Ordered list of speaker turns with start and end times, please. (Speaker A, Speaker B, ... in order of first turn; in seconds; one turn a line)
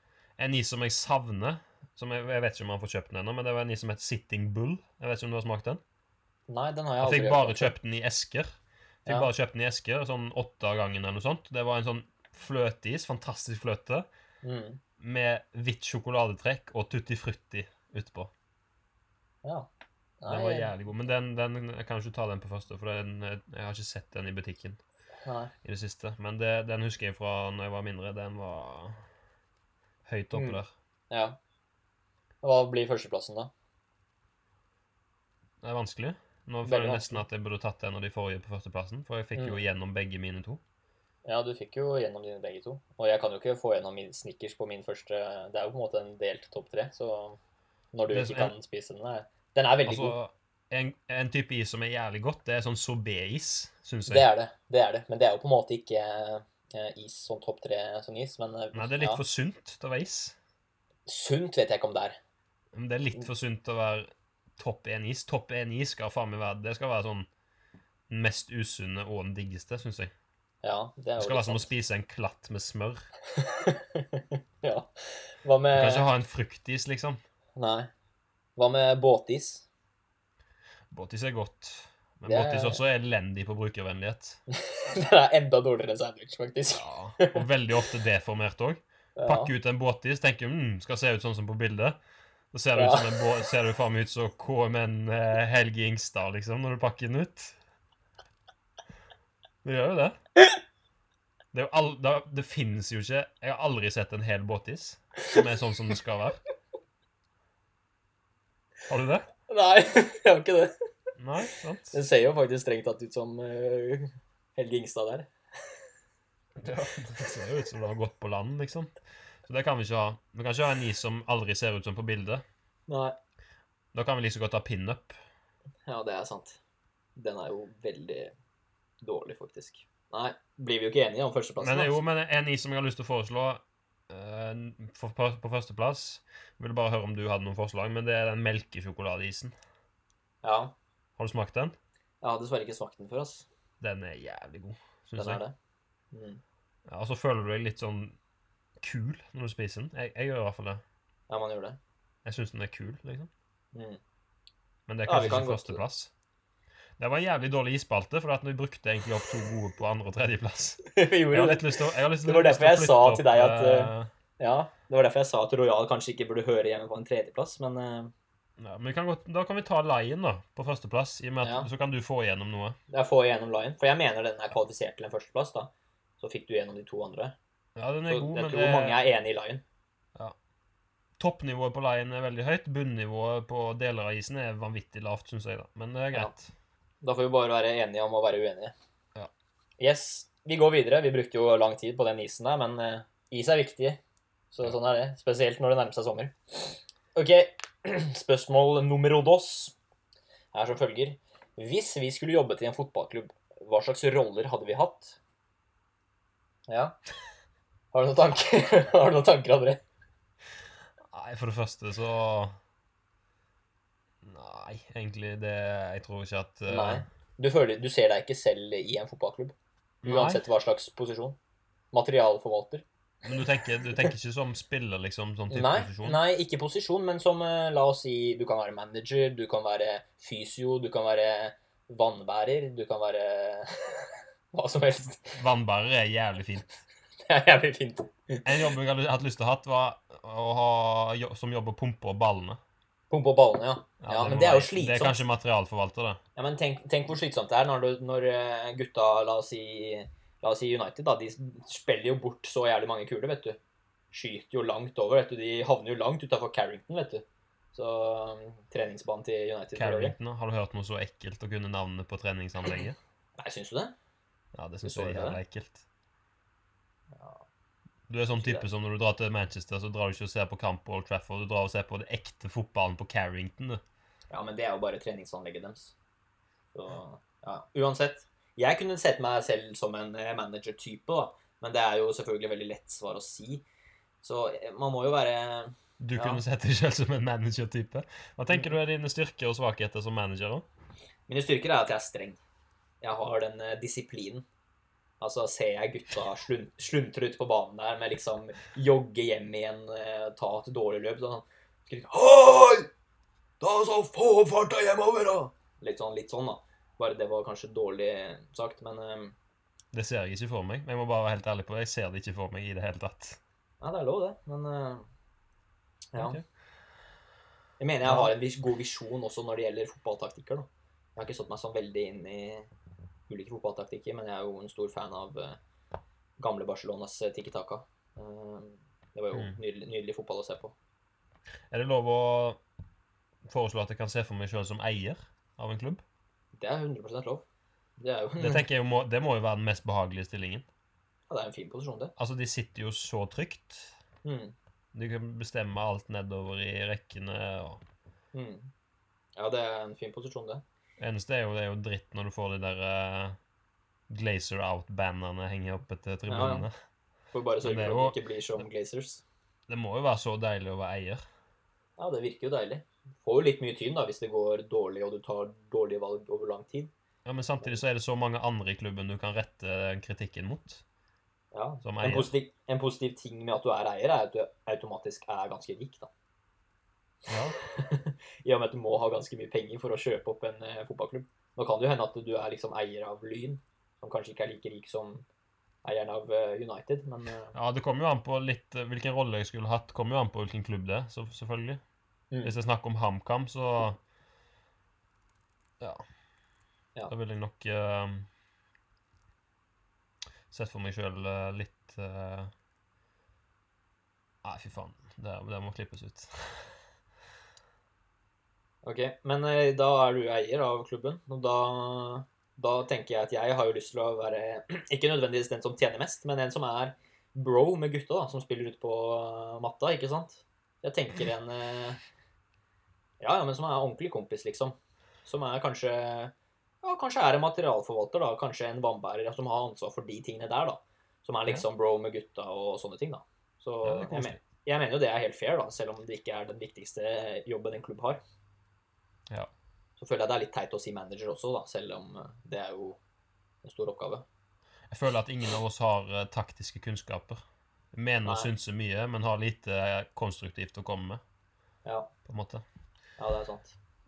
Speaker A: 0.4-5.8
Speaker B: 6.5-7.7
Speaker A: 7.0-8.5
Speaker A: 9.1-14.1
Speaker B: 14.4-14.8
Speaker A: 15.0-18.3
Speaker B: 19.4-19.7
Speaker B: 20.2-20.7
Speaker A: 20.3-24.8
Speaker B: 25.2-25.5
Speaker A: 25.6-29.0
Speaker A: 30.1-30.7
Speaker B: 30.3-30.6
Speaker B: 31.1-31.4
Speaker B: 32.4-33.5
Speaker A: 35.6-40.6
Speaker B: 36.6-37.2
Speaker B: 39.4-39.6
Speaker B: 41.2-47.4
Speaker B: 47.9-50.2
Speaker A: 48.1-48.5
Speaker A: 49.9-54.3
Speaker B: 54.1-59.2
Speaker A: 58.7-60.4
Speaker B: 61.1-62.2
Speaker A: 62.7-67.3
Speaker A: 68.1-70.1
Speaker B: 70.6-71.7
Speaker A: 71.2-73.0
Speaker B: 73.3-76.1
Speaker A: 75.7-77.2
Speaker B: 77.6-77.9
Speaker B: 78.6-79.7
Speaker A: 80.9-84.4
Speaker B: 82.3-82.8
Speaker B: 84.5-87.5
Speaker A: 86.7-92.0
Speaker B: 89.2-89.5
Speaker A: 92.5-97.6
Speaker B: 92.8-93.2
Speaker A: 99.6-100.2
Speaker A: 101.5-106.4
Speaker A: 108.9-109.3
Speaker B: 109.5-110.7
Speaker A: 111.2-112.0
Speaker B: 111.9-115.3
Speaker A: 116.6-118.9
Speaker A: 119.5-122.5
Speaker B: 122.9-123.2
Speaker A: 123.9-125.2
Speaker B: 125.9-126.6
Speaker B: 127.2-128.3
Speaker B: 129.0-132.0
Speaker A: 131.6-139.5
Speaker B: 140.4-140.8
Speaker A: 141.2-141.8
Speaker B: 142.2-143.5
Speaker A: 143.8-145.4
Speaker B: 145.2-145.6
Speaker B: 146.1-146.4
Speaker A: 146.9-148.2
Speaker A: 148.8-150.8
Speaker B: 151.3-151.8
Speaker A: 152.2-153.3
Speaker B: 153.7-154.0
Speaker A: 154.9-156.1
Speaker B: 155.1-155.8
Speaker A: 157.0-164.1
Speaker B: 160.9-168.1
Speaker A: 168.6-172.8
Speaker B: 171.4-171.7
Speaker B: 172.9-177.3
Speaker A: 177.8-179.0
Speaker B: 178.1-179.6
Speaker A: 181.2-186.5
Speaker B: 187.0-188.8
Speaker B: 189.8-194.0
Speaker B: 194.5-199.8
Speaker B: 200.5-205.2
Speaker B: 206.7-207.0
Speaker B: 207.9-209.8
Speaker A: 211.1-212.6
Speaker A: 214.2-217.1
Speaker B: 216.7-221.4
Speaker A: 220.0-220.4
Speaker B: 221.9-222.8
Speaker A: 223.2-226.2
Speaker B: 223.8-224.1
Speaker B: 225.5-235.4
Speaker A: 235.3-236.7
Speaker B: 237.2-238.7
Speaker A: 238.4-242.6
Speaker B: 243.1-245.2
Speaker A: 244.0-246.2
Speaker B: 246.4-253.6
Speaker B: 254.1-260.2
Speaker A: 259.8-263.0
Speaker B: 263.4-263.9
Speaker A: 264.6-265.9
Speaker B: 264.8-265.4
Speaker B: 267.1-267.4
Speaker A: 268.1-273.8
Speaker B: 268.4-268.7
Speaker B: 274.3-275.9
Speaker B: 276.7-283.6
Speaker B: 284.2-286.4
Speaker A: 286.0-290.6
Speaker B: 291.3-292.4
Speaker B: 293.0-294.4
Speaker B: 295.2-302.9
Speaker B: 303.6-309.4
Speaker A: 309.9-313.4
Speaker B: 313.8-315.1
Speaker B: 316.1-316.4
Speaker A: 316.2-316.4
Speaker B: 317.8-322.7
Speaker A: 318.1-318.3
Speaker B: 323.3-325.6
Speaker B: 326.4-330.8
Speaker A: 331.7-332.6
Speaker A: 333.5-336.0
Speaker B: 336.6-337.5
Speaker B: 338.0-338.6
Speaker A: 338.4-340.7
Speaker B: 341.3-342.1
Speaker A: 342.2-344.0
Speaker B: 344.2-344.6
Speaker A: 344.9-347.8
Speaker B: 348.3-348.7
Speaker B: 349.4-350.6
Speaker A: 351.0-353.4
Speaker A: 354.1-356.7
Speaker B: 356.3-356.7
Speaker B: 357.3-359.2
Speaker A: 357.6-358.2
Speaker A: 359.7-361.2
Speaker B: 362.0-366.9
Speaker A: 367.2-370.8
Speaker B: 371.5-376.1
Speaker A: 371.8-372.3
Speaker A: 377.3-377.6
Speaker B: 377.7-385.2
Speaker B: 385.8-387.5
Speaker A: 387.5-391.8
Speaker A: 392.4-394.0
Speaker A: 397.1-398.3
Speaker A: 400.5-402.5
Speaker A: 404.4-406.7
Speaker B: 408.8-422.0
Speaker B: 423.2-438.2
Speaker A: 433.8-434.4
Speaker B: 440.0-443.0
Speaker B: 443.6-444.2
Speaker A: 444.9-447.4
Speaker A: 447.9-451.2
Speaker B: 448.2-448.5
Speaker B: 451.9-452.1
Speaker A: 452.2-452.6
Speaker B: 453.2-453.8